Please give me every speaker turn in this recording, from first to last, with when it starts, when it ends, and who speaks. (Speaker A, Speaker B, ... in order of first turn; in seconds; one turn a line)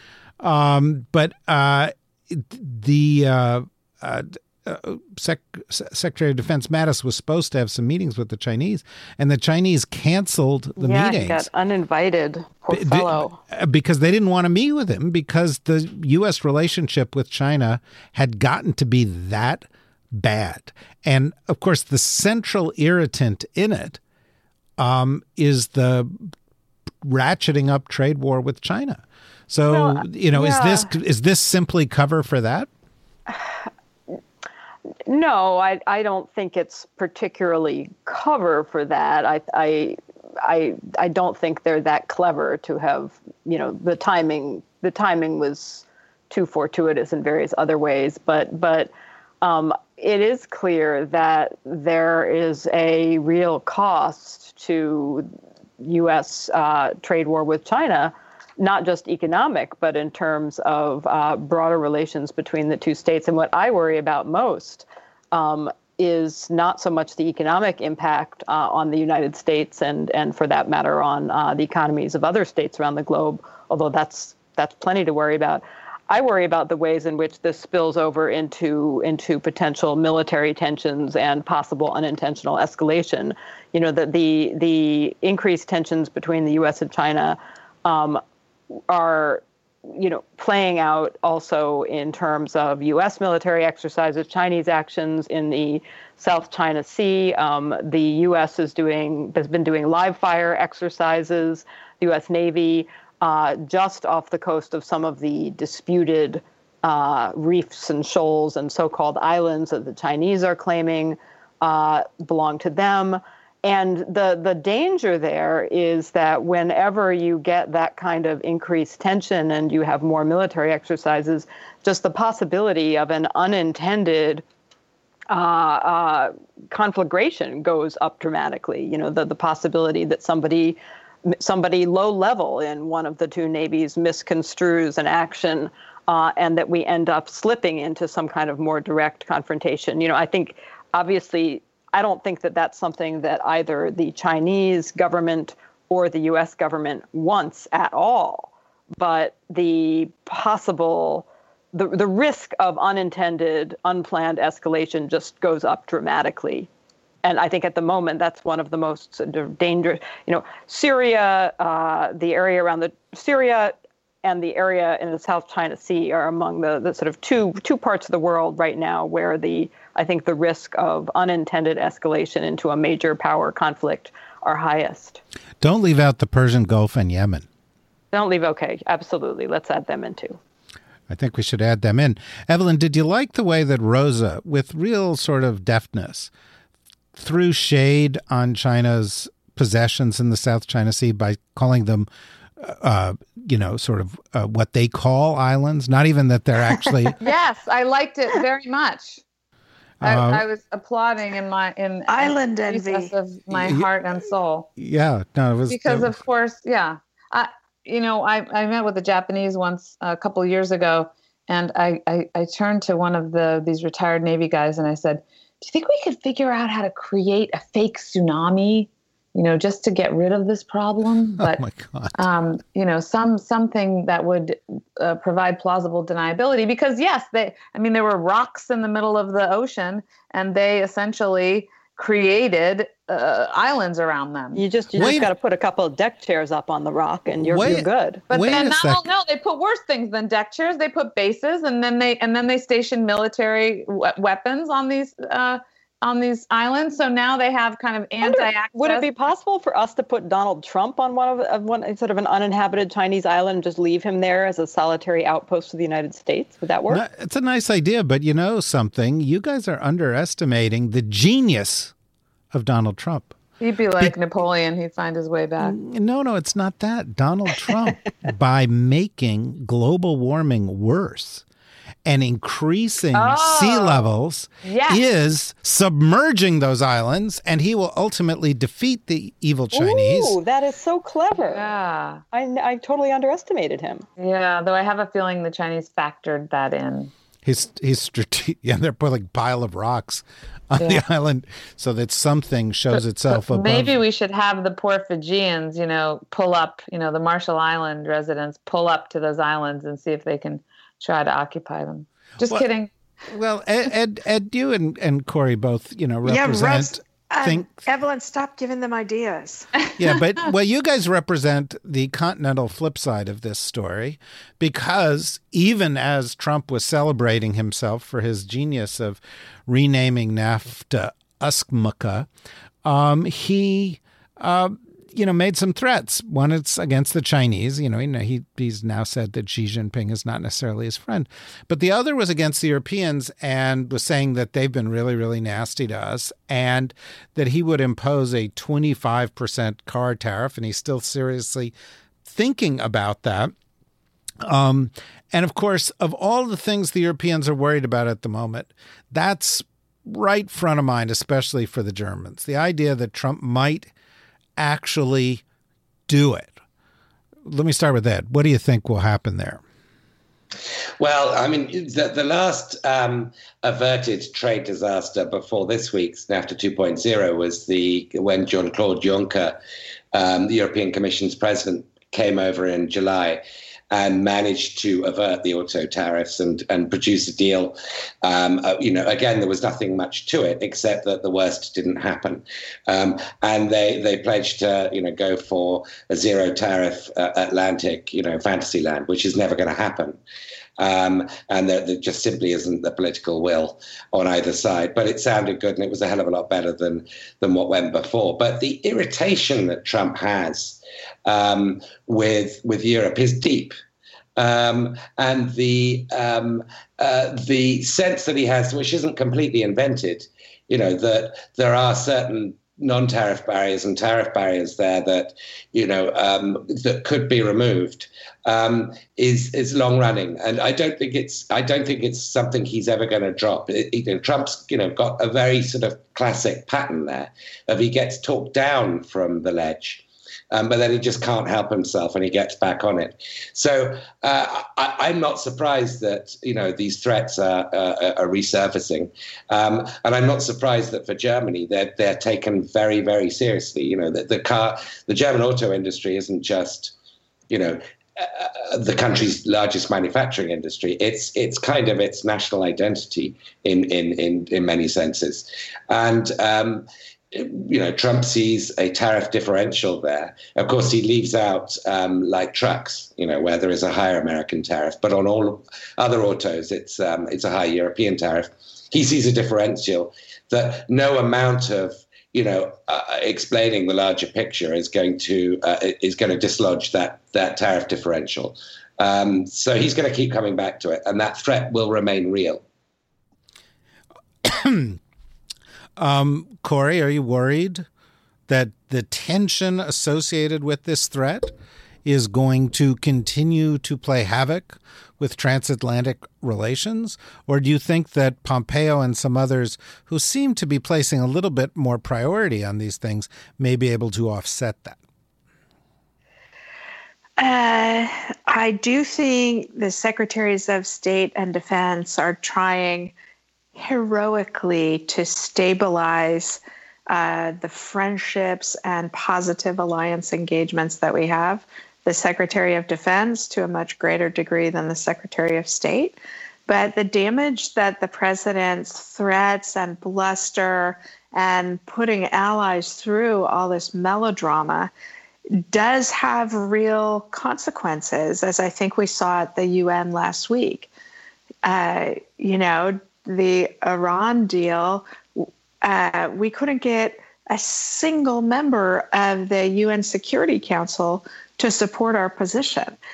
Speaker A: 0.4-11.5
Speaker B: 10.8-13.4
Speaker A: 12.7-24.0
Speaker A: 24.8-26.3
Speaker A: 27.0-32.7
Speaker B: 29.7-30.9
Speaker B: 33.3-33.6
Speaker B: 35.1-48.9
Speaker B: 49.4-55.3
Speaker B: 55.8-88.2
Speaker B: 88.9-124.4
Speaker B: 125.3-156.7
Speaker B: 157.2-175.2
Speaker A: 175.6-177.5
Speaker B: 178.1-180.4
Speaker A: 181.1-186.3
Speaker A: 187.2-192.1
Speaker A: 192.6-197.2
Speaker C: 197.2-199.2
Speaker A: 200.0-200.4
Speaker C: 200.0-204.7
Speaker D: 202.1-203.1
Speaker A: 203.5-203.9
Speaker A: 204.8-206.2
Speaker C: 205.7-221.6
Speaker A: 221.4-222.3
Speaker C: 222.2-234.6
Speaker B: 234.6-238.2
Speaker A: 234.9-235.3
Speaker A: 237.4-239.1
Speaker C: 238.3-249.1
Speaker B: 248.2-257.0
Speaker A: 256.9-261.9
Speaker A: 262.5-263.4
Speaker C: 263.6-265.8
Speaker A: 265.6-271.4
Speaker A: 272.1-280.4
Speaker C: 273.1-274.1
Speaker C: 274.6-275.0
Speaker B: 279.7-281.7
Speaker C: 281.5-282.2
Speaker B: 282.3-284.1
Speaker C: 284.2-287.1
Speaker A: 287.4-294.0
Speaker C: 292.9-302.9
Speaker A: 303.3-307.8
Speaker D: 306.2-309.7
Speaker A: 310.0-322.3
Speaker A: 322.9-341.7
Speaker A: 342.2-343.5
Speaker A: 344.4-353.9
Speaker A: 354.6-355.4
Speaker A: 356.1-356.6
Speaker A: 357.4-359.6
Speaker E: 361.0-369.6
Speaker E: 370.1-390.2
Speaker E: 390.8-403.8
Speaker E: 404.4-446.9
Speaker E: 447.5-482.6
Speaker A: 484.4-485.0
Speaker A: 486.0-487.9
Speaker A: 488.5-491.5
Speaker A: 492.1-505.0
Speaker D: 507.4-513.1
Speaker D: 513.8-526.2
Speaker D: 526.7-534.9
Speaker D: 535.6-540.9
Speaker D: 541.6-553.0